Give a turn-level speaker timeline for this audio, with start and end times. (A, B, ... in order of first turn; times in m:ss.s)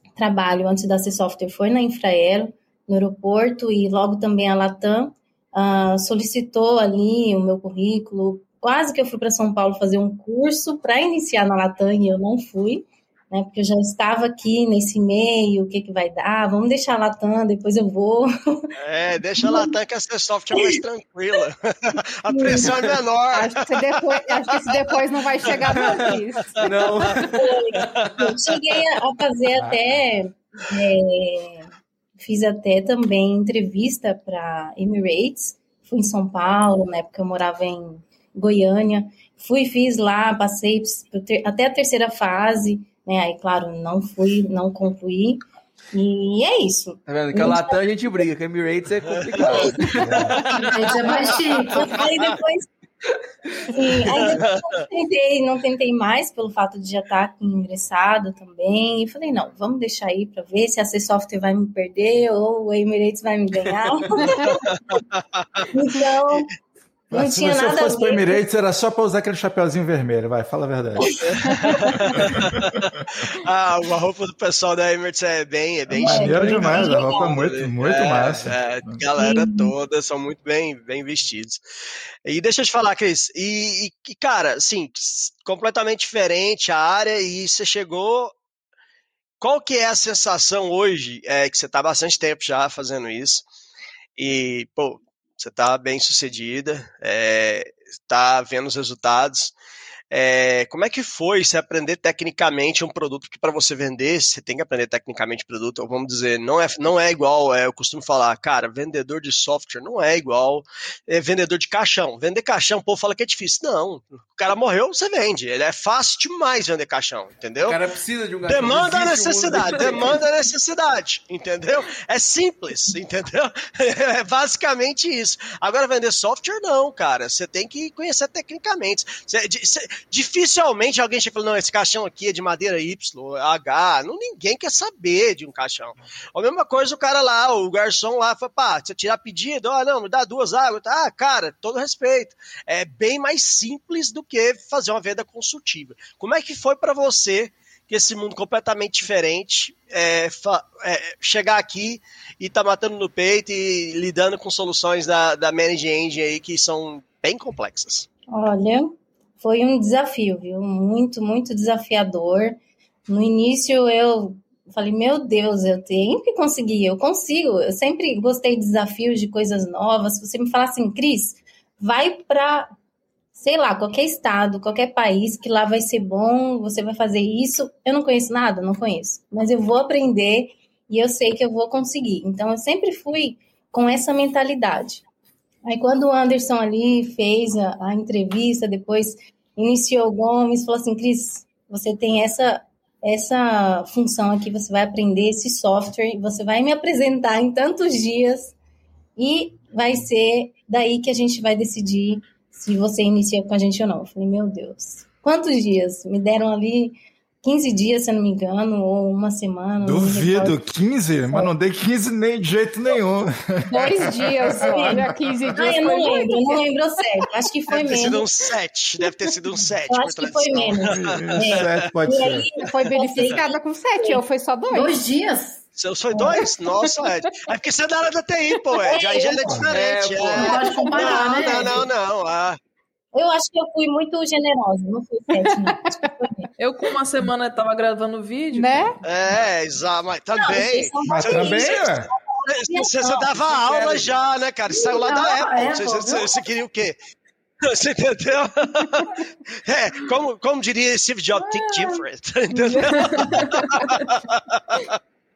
0:00.2-0:18.7 A
0:18.8-0:23.7 B
0:19.4-0:19.7 A
0:22.3-0:22.9 A
0:23.3-0:26.6 C
0:25.7-0:28.1 D
0:27.4-0:45.4 A
0:29.6-0:30.0 E
0:45.9-0:47.8 A
0:47.1-0:50.2 D
0:49.2-0:52.3 B
0:50.7-0:51.9 F
0:51.2-0:52.7 A
0:53.7-1:04.6 A
0:54.1-0:54.8 B
1:04.4-1:05.7 B
1:05.7-1:06.5 A
1:07.1-1:11.7 E
1:07.1-1:08.4 A
1:11.1-1:21.6 B
1:12.3-1:12.7 E
1:15.9-1:17.3 A
1:16.0-1:19.0 E
1:19.2-1:19.7 A
1:22.2-1:28.3 B
1:29.4-1:33.4 B
1:34.2-1:39.5 B
1:40.1-1:57.8 B
1:57.6-2:00.2 D
1:58.4-2:38.1 B
2:38.3-2:52.7 A
2:53.3-3:05.0 A
3:05.6-3:18.5 A
3:19.2-3:30.6 A
3:29.8-3:35.5 E
3:33.7-3:36.6 C
3:34.6-3:38.3 A
3:37.7-3:41.9 B
3:39.9-3:43.5 A
3:40.9-3:42.5 E
3:42.6-3:45.0 C
3:44.7-3:45.7 F
3:45.7-3:52.6 B
3:48.8-3:49.6 A
3:49.5-3:51.1 D
3:50.3-3:51.8 F
3:53.1-3:56.5 A
3:56.6-3:58.9 G
3:58.5-3:58.9 C
3:59.0-4:07.0 B
4:00.5-4:01.8 A
4:01.0-4:02.1 E
4:03.7-4:04.1 D
4:04.7-4:06.4 F
4:07.6-4:15.0 B